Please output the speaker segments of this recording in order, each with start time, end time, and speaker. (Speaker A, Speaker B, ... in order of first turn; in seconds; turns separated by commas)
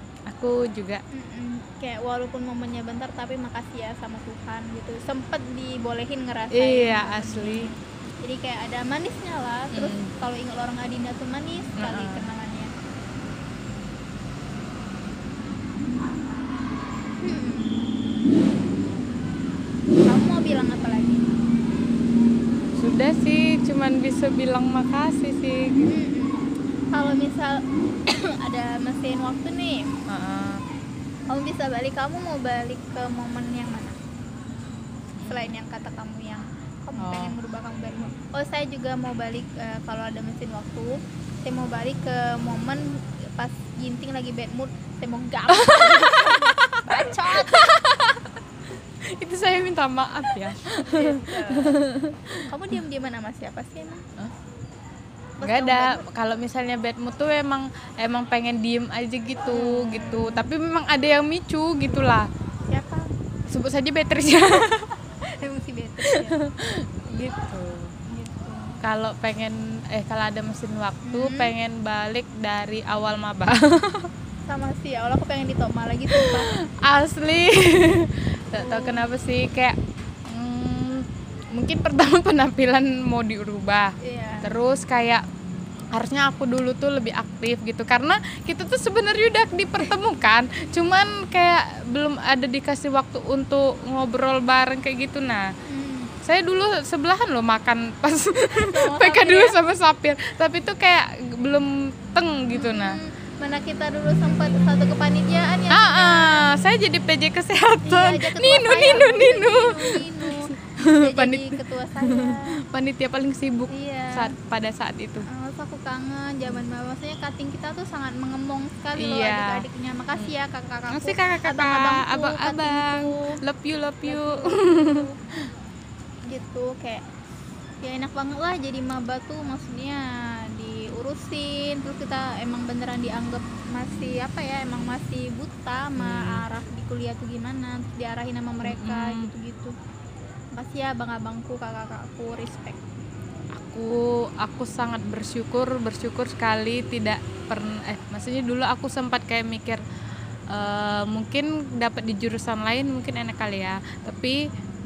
Speaker A: 0.3-1.0, Speaker B: 1.1-12.7, Speaker A: 6.5-7.7, Speaker A: 9.7-10.1, Speaker A: 11.8-12.3, Speaker B: 17.2-17.9, Speaker B: 20.0-21.3, Speaker A: 22.8-25.9, Speaker B: 25.8-29.9, Speaker A: 30.1-30.6, Speaker B: 31.3-34.0, Speaker A: 35.2-35.5, Speaker B: 35.2-47.7, Speaker A: 37.0-37.3, Speaker A: 45.5-48.3, Speaker A: 49.0-52.5, Speaker B: 50.8-51.8, Speaker B: 52.5-54.0, Speaker B: 55.4-56.0, Speaker A: 55.4-62.3, Speaker B: 59.5-60.5, Speaker B: 62.7-63.1, Speaker A: 63.5-64.9, Speaker B: 65.2-66.4, Speaker A: 66.0-67.9, Speaker B: 68.1-68.8, Speaker A: 68.8-74.1, Speaker B: 71.0-71.5, Speaker B: 74.5-76.5, Speaker A: 76.1-85.2, Speaker B: 78.6-79.1, Speaker B: 84.0-84.5, Speaker A: 85.9-95.5, Speaker B: 95.7-96.1, Speaker A: 96.2-103.0, Speaker B: 98.6-99.5, Speaker B: 102.5-106.5, Speaker A: 105.7-115.2, Speaker B: 107.8-112.6, Speaker B: 113.7-114.3, Speaker B: 115.2-123.4, Speaker A: 119.0-119.6, Speaker A: 120.9-125.1, Speaker B: 124.0-125.2, Speaker B: 126.2-127.0, Speaker B: 127.8-139.7, Speaker A: 136.0-136.4, Speaker A: 138.6-139.3, Speaker B: 140.5-142.8, Speaker A: 143.5-149.8, Speaker A: 150.5-154.4